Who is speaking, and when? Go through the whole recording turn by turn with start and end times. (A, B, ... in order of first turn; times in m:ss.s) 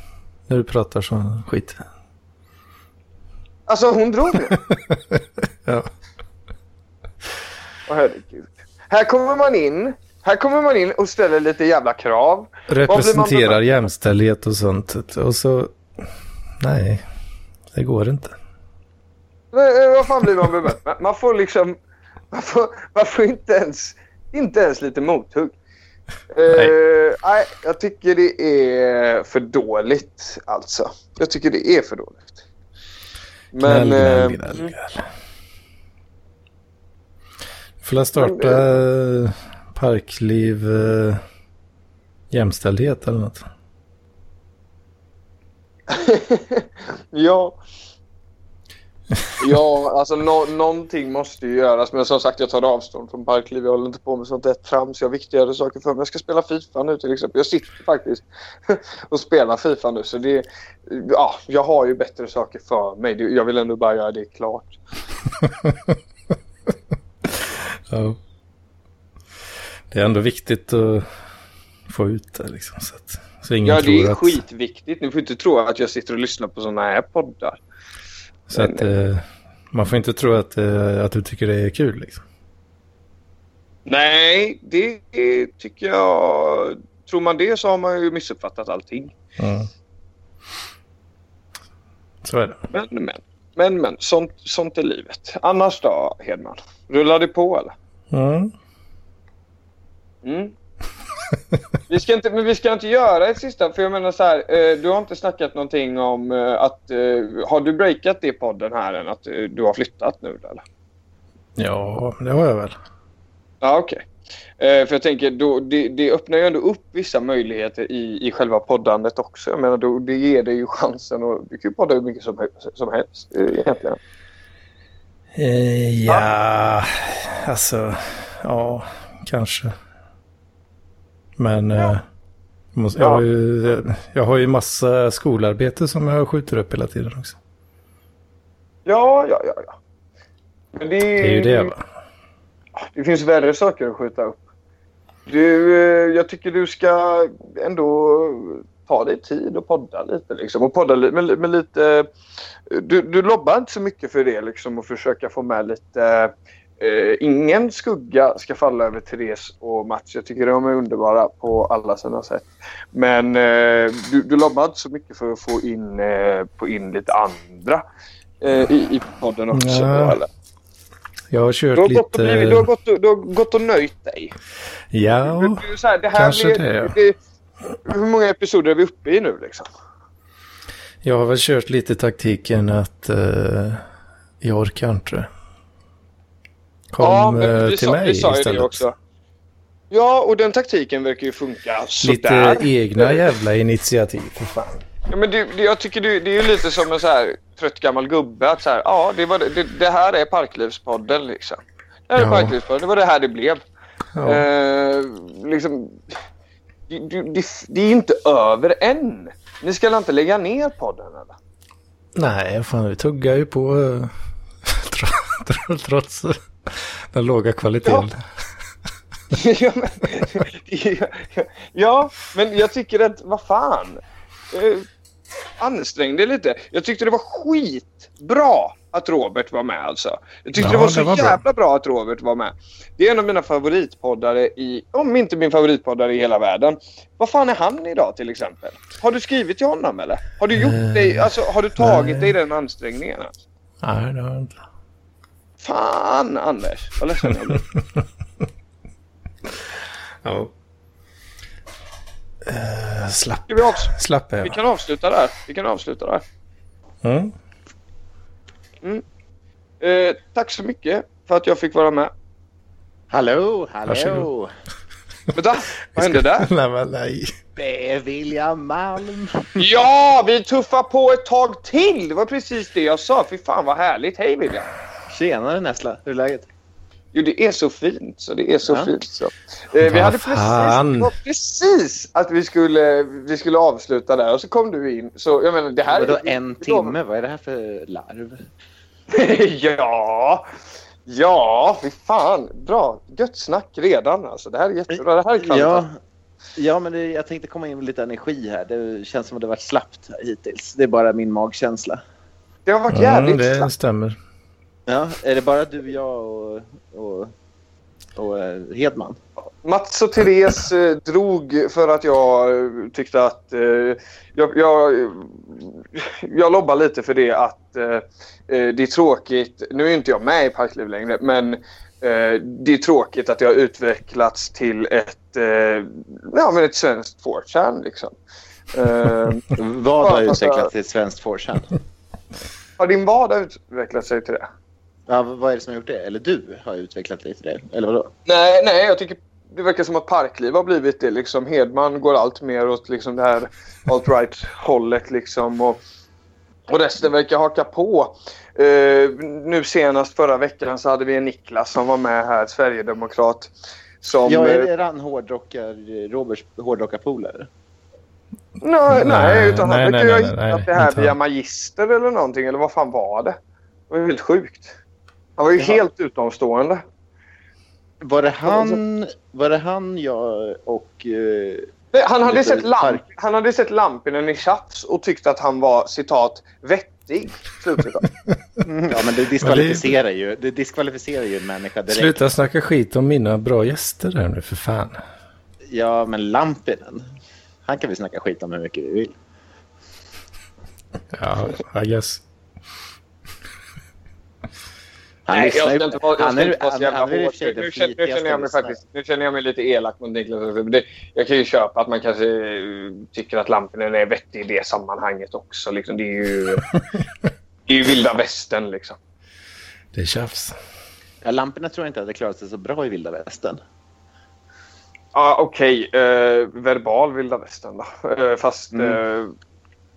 0:00.5-0:01.8 A
0:03.7-0:04.6 B
0:04.5-0:05.9 A
0:07.9-0:13.6 B
0:12.7-0:15.7 A
0:16.6-0:17.0 A
0:17.7-0:18.4 A
0:19.5-0:21.8 B
0:22.3-0:25.6 B
0:26.3-0:32.4 B
0:33.5-0:34.7 B
0:33.6-0:35.0 A
0:37.8-0:41.2 A
0:38.2-0:38.6 B
0:42.3-0:43.4 A
0:45.9-0:47.6 B
0:49.4-1:04.8 B
1:07.9-1:08.2 A
1:09.9-1:11.0 A
1:11.9-1:14.4 A
1:13.6-1:17.6 B
1:18.5-1:22.2 A
1:18.5-1:18.8 B
1:23.8-1:29.1 B
1:29.4-1:29.7 A
1:32.2-1:32.6 A
1:32.7-1:37.7 B
1:38.1-1:38.5 A
1:40.2-1:40.5 B
1:41.9-1:50.6 B
1:51.6-1:52.8 A
1:53.6-1:54.0 B
1:54.6-2:04.0 B
2:05.3-2:09.7 A
2:11.4-2:12.0 A
2:12.7-2:17.4 A
2:13.0-2:13.2 B
2:18.8-2:19.7 B
2:20.8-2:21.7 B
2:21.2-2:21.8 A
2:22.9-2:24.4 B
2:25.3-2:32.1 B
2:32.7-2:47.8 B
2:48.4-2:50.3 B
2:49.5-2:50.2 A
2:51.3-2:52.6 A
2:51.7-2:54.3 B
2:54.9-2:56.9 A
2:55.2-2:57.1 B
2:57.8-2:59.7 B
3:01.0-3:03.8 A
3:04.4-3:05.3 A
3:06.9-3:08.8 A
3:07.0-3:08.9 B
3:09.9-3:13.2 B
3:12.0-3:14.8 A
3:15.1-3:23.6 B
3:22.2-3:22.5 A
3:24.2-3:24.4 A
3:24.2-3:26.2 B
3:26.9-3:31.3 B
3:32.2-3:34.1 A
3:34.6-3:38.2 A
3:39.3-3:44.0 B
3:44.5-3:44.8 B
3:45.6-4:03.3 B
3:50.6-3:51.4 A
4:00.5-4:01.2 A
4:01.8-4:02.3 A
4:03.8-4:04.6 A
4:05.6-4:07.6 B
4:10.2-4:10.5 A
4:12.4-4:14.6 A
4:13.5-4:13.9 B
4:14.4-4:16.2 B
4:17.0-4:17.3 A
4:19.8-4:22.1 B
4:23.1-4:24.5 C
4:23.9-4:24.3 A
4:25.3-4:26.5 B
4:25.9-4:27.3 A
4:27.6-4:29.6 C
4:29.6-4:34.7 B
4:35.1-4:36.5 C
4:37.1-4:46.9 B
4:39.8-4:41.1 A
4:45.9-4:48.4 C
4:49.1-4:50.5 B
4:51.1-4:55.8 B
4:54.9-4:56.0 C
4:56.5-5:02.0 C
5:02.6-5:03.7 B
5:02.9-5:04.2 A
5:04.9-5:07.3 C
5:08.2-5:09.2 C
5:09.6-5:28.2 B
5:28.7-5:30.7 B
5:29.5-5:31.7 C
5:32.8-5:34.5 B
5:35.1-5:38.1 C
5:38.2-5:45.8 B
5:46.7-5:54.7 B
5:54.2-5:57.5 C
5:58.6-6:03.4 B
5:58.9-6:01.2 A
6:03.9-6:04.7 B
6:05.4-6:06.8 B
6:08.0-6:11.7 C
6:08.4-6:08.8 B
6:11.9-6:18.0 B
6:12.2-6:13.0 C
6:18.6-6:22.2 C
6:19.4-6:19.9 A
6:21.9-6:25.0 A
6:25.7-6:27.0 C
6:27.6-6:29.1 C
6:31.1-6:32.2 A
6:35.3-6:38.8 C
6:35.3-6:46.6 B
6:47.7-6:49.0 B
6:49.9-6:50.5 A
6:51.2-6:53.6 C
6:55.1-6:59.3 B